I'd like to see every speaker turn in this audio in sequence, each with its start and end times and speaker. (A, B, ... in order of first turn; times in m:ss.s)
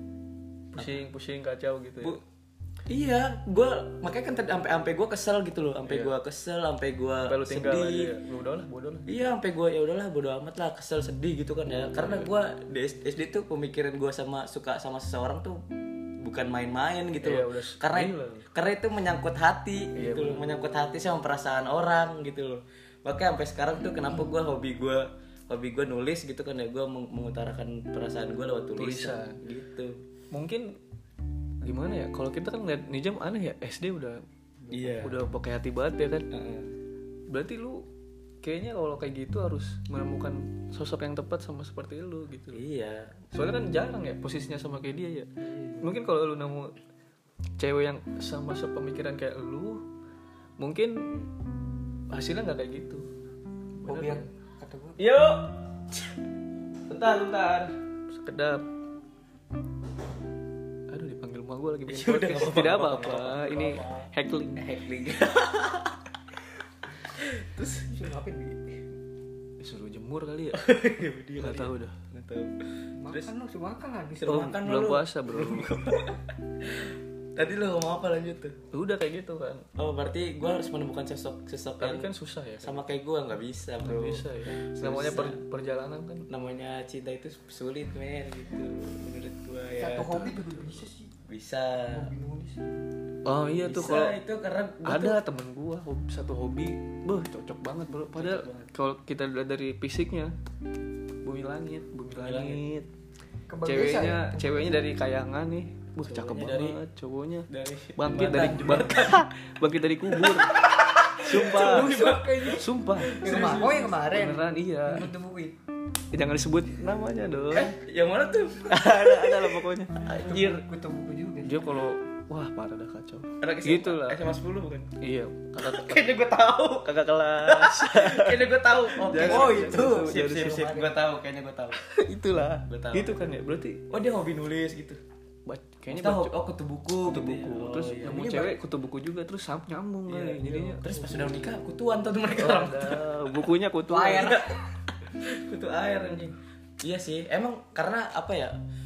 0:00.7-0:02.2 A
0:00.8-0:01.0 B
0:02.9-0:08.1 B
0:05.8-0:06.1 A
0:07.3-0:09.1 A
0:09.1-0:15.6 B
0:12.0-0:12.3 A
0:16.2-0:30.0 B
0:17.2-0:18.5 A
0:19.9-0:20.5 A
0:28.8-0:29.4 A
0:30.3-0:30.7 A
0:31.6-0:34.2 A
0:34.7-0:35.2 B
0:34.8-0:36.3 A
0:36.3-0:36.7 B
0:37.3-0:37.8 A
0:38.4-0:42.6 A
0:42.5-0:43.2 B
0:43.3-0:45.3 A
0:45.4-0:45.9 C
0:45.8-0:46.7 A
0:47.6-0:49.8 A
0:50.6-0:51.1 A
0:52.1-0:53.0 A
0:53.8-0:54.2 A
0:53.8-0:55.0 C
0:55.0-0:56.1 B
0:56.9-0:57.7 B
0:58.1-0:58.6 A
1:00.9-1:04.6 A
1:01.9-1:06.0 B
1:07.1-1:07.9 B
1:07.7-1:08.8 C
1:09.6-1:10.6 A
1:10.5-1:12.6 B
1:11.4-1:12.0 A
1:13.0-1:14.5 C
1:14.2-1:18.6 B
1:14.3-1:15.7 A
1:18.7-1:19.6 A
1:19.8-1:22.1 B
1:21.8-1:22.8 A
1:22.6-1:25.4 B
1:23.8-1:26.3 A
1:26.3-1:30.7 B
1:29.8-1:31.1 C
1:31.2-1:32.1 B
1:31.9-1:32.8 C
1:33.2-1:34.2 A
1:33.6-1:35.2 B
1:34.8-1:40.3 A
1:38.1-1:38.7 B
1:41.2-1:42.9 A
1:42.2-1:42.6 B
1:43.5-1:44.7 C
1:43.6-1:52.0 A
1:46.0-1:46.8 B
1:47.5-1:49.2 B
1:50.1-1:53.9 B
1:51.2-1:55.6 C
1:52.5-1:53.2 A
1:54.0-1:55.1 A
1:56.1-1:57.7 A
1:57.5-2:00.6 B
1:58.6-2:00.5 A
2:00.2-2:01.7 C
2:01.4-2:04.2 A
2:03.4-2:04.9 B
2:05.0-2:06.0 A
2:05.6-2:11.8 B
2:07.0-2:10.8 A
2:09.1-2:10.9 C
2:11.9-2:13.8 A
2:12.0-2:12.6 C
2:12.6-2:13.3 B
2:13.9-2:15.0 B
2:15.4-2:16.3 A
2:15.9-2:18.6 B
2:17.1-2:20.9 A
2:20.1-2:23.4 B
2:22.3-2:24.4 A
2:23.9-2:24.6 C
2:24.2-2:28.6 B